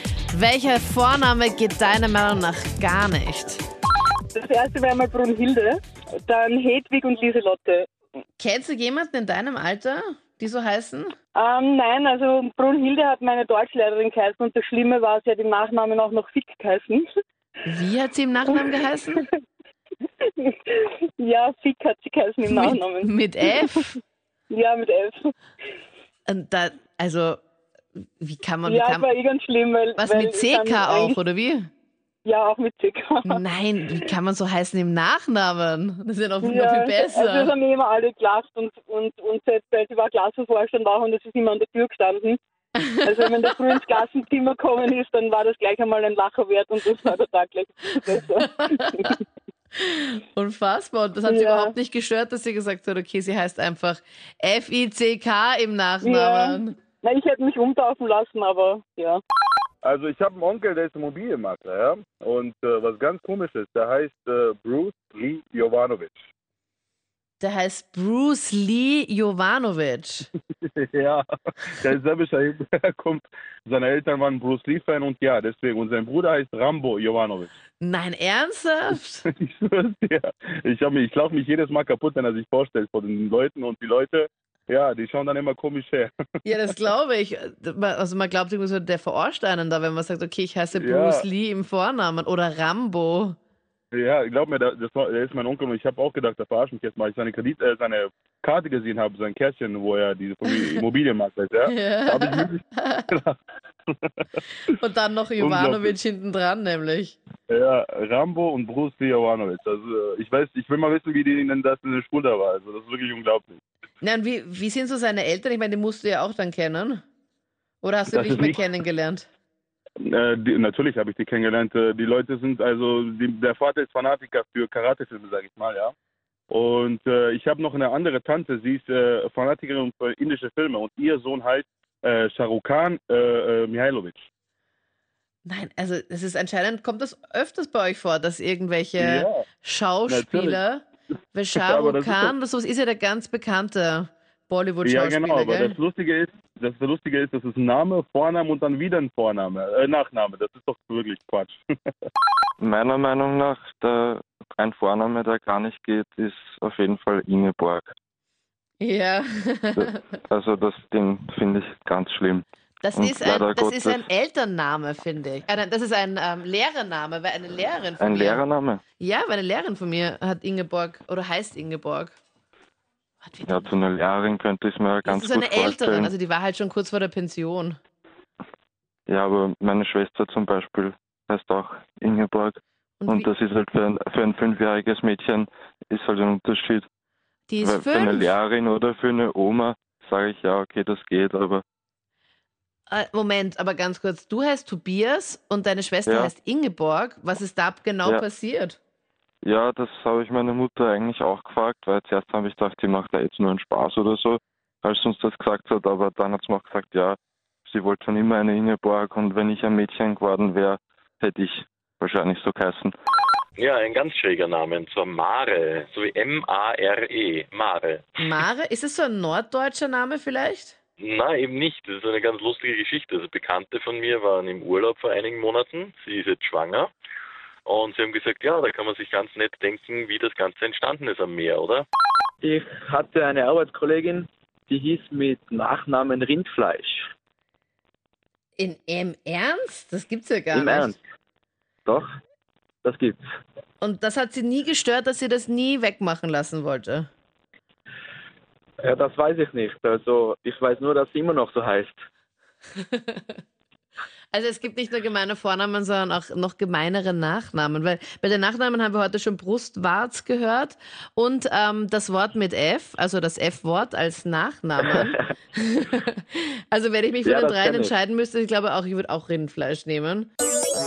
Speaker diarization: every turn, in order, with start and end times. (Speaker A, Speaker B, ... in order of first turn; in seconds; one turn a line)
Speaker A: 0.3-3.6
Speaker B: 4.3-7.9
Speaker A: 8.4-11.1
Speaker B: 11.3-17.1
Speaker A: 17.7-19.2
Speaker B: 20.2-23.7
Speaker A: 22.5-24.0
Speaker B: 24.5-25.3
Speaker A: 26.3-27.4
Speaker A: 28.2-29.1
Speaker B: 28.6-31.2
Speaker A: 30.0-31.7
Speaker B: 32.3-33.4
Speaker A: 33.3-37.5
Speaker B: 36.4-42.4
Speaker A: 42.8-43.2
Speaker B: 43.0-49.2
Speaker A: 48.8-49.1
Speaker A: 49.8-56.8
Speaker B: 51.3-51.8
Speaker B: 56.0-59.2
Speaker C: 59.8-66.2
Speaker A: 67.4-70.3
Speaker C: 70.6-77.5
Speaker A: 77.8-79.3
Speaker C: 79.3-86.1
Speaker A: 86.5-93.4
Speaker C: 90.8-91.3
Speaker C: 93.9-103.3
Speaker A: 101.7-103.1
Speaker A: 104.8-107.2
Speaker C: 105.4-105.9
Speaker C: 107.5-113.6
Speaker A: 114.0-117.0
Speaker A: 117.8-119.3
Speaker C: 118.1-118.6
Speaker C: 120.0-125.9
Speaker C: 126.5-134.2
Speaker A: 135.5-145.8
Speaker C: 139.0-139.4
Speaker C: 140.1-140.6
Speaker C: 141.6-142.3
Speaker C: 144.8-151.6
Speaker D: 152.6-157.9
Speaker A: 158.8-160.0
Speaker D: 159.8-162.4
Speaker A: 162.8-168.4
Speaker D: 162.9-164.1
Speaker D: 168.0-168.8
Speaker A: 169.0-172.2
Speaker A: 173.2-173.7
Speaker D: 173.5-176.1
Speaker A: 175.1-177.8
Speaker D: 179.1-186.9
Speaker A: 183.0-183.3
Speaker A: 187.5-188.3
Speaker D: 187.6-191.6
Speaker A: 192.9-198.8
Speaker D: 196.1-196.3
Speaker D: 199.4-212.9
Speaker E: 213.6-218.1
Speaker A: 218.2-220.8
Speaker E: 221.0-226.9
Speaker E: 227.7-231.9
Speaker F: 232.4-237.1
Speaker A: 238.6-241.0
Speaker F: 240.5-241.0
Speaker F: 241.8-242.1
Speaker F: 242.8-243.2
Speaker A: 243.8-247.1
Speaker F: 248.8-252.1
Speaker A: 252.9-253.3
Speaker A: 254.3-270.3
Speaker F: 264.9-265.2
Speaker F: 267.2-267.9